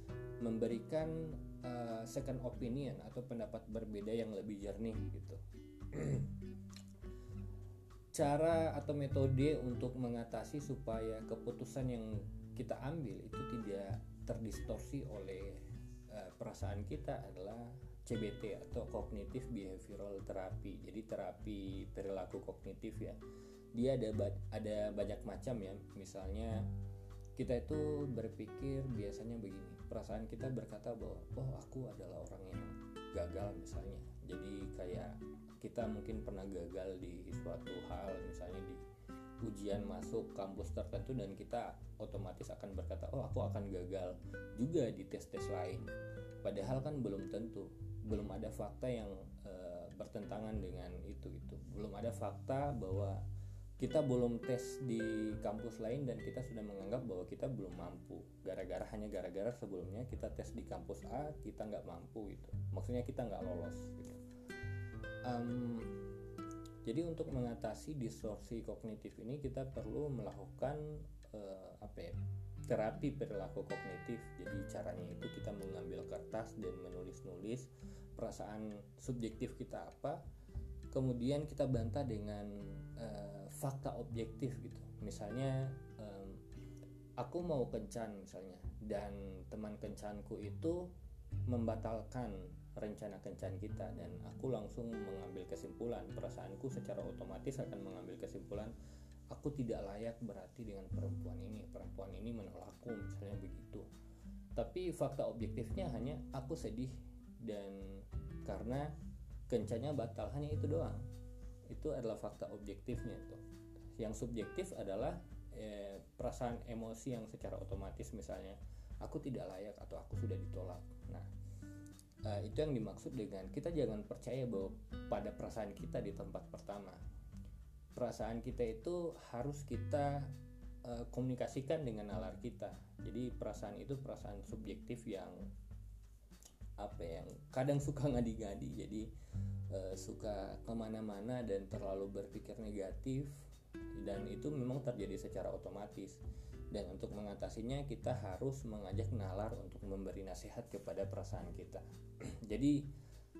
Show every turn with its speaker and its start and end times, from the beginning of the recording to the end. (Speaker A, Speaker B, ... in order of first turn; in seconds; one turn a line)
Speaker A: 0.4-5.4
Speaker A: 5.9-6.3
Speaker A: 8.1-23.2
Speaker A: 23.7-26.6
Speaker A: 27.4-38.8
Speaker A: 39.4-45.9
Speaker A: 46.4-53.2
Speaker A: 53.8-64.2
Speaker A: 65.2-66.0
Speaker A: 66.8-72.1
Speaker A: 72.7-80.2
Speaker A: 80.9-86.4
Speaker A: 87.2-90.9
Speaker A: 91.5-98.7
Speaker A: 99.3-103.9
Speaker A: 104.5-108.9
Speaker A: 109.5-111.0
Speaker A: 111.7-113.4
Speaker A: 114.0-121.3
Speaker A: 122.2-127.0
Speaker A: 127.9-130.3
Speaker A: 130.8-135.4
Speaker A: 136.8-139.1
Speaker A: 139.7-143.4
Speaker A: 143.9-146.2
Speaker A: 146.7-152.8